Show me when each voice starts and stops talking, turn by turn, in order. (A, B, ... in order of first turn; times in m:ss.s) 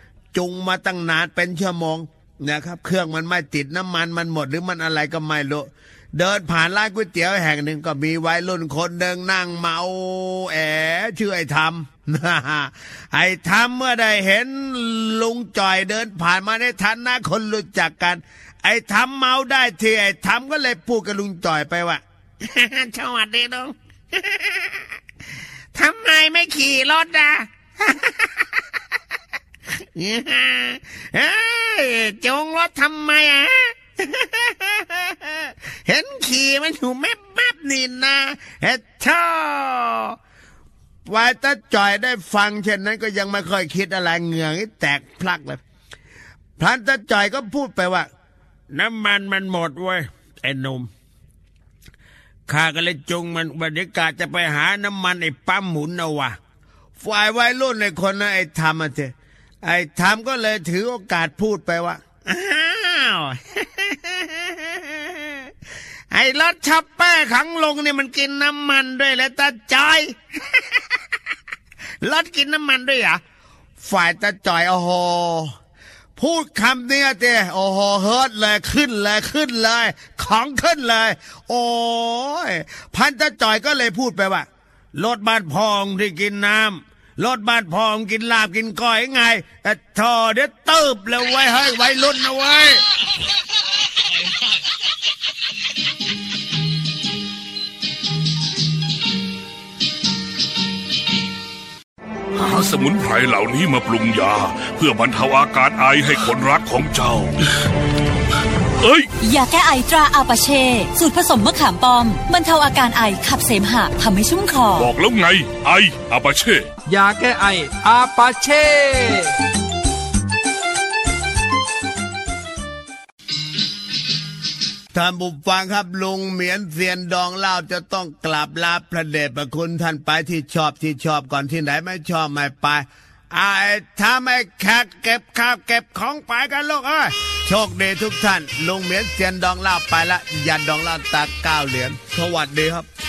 0:00.3-0:22.0 A
0:22.4-0:24.8 B
0:25.8-0:28.4 B
0:30.0-0:35.3 B
0:35.9-0:36.7 A
0:35.9-0:38.4 B
0:37.3-0:40.2 A
0:41.1-0:45.6 A
0:46.6-0:48.1 A
0:48.7-0:50.9 A
0:52.5-0:56.4 A
0:57.0-1:05.3 A
1:06.1-1:10.8 A
1:12.0-1:13.2 A
1:13.8-1:15.6 A
1:16.2-1:32.8 A
1:42.4-1:47.3 C
1:48.8-1:49.1 C
1:49.2-1:54.9 D
1:54.8-1:56.7 C
1:56.9-1:59.2 E
2:04.9-2:22.9 A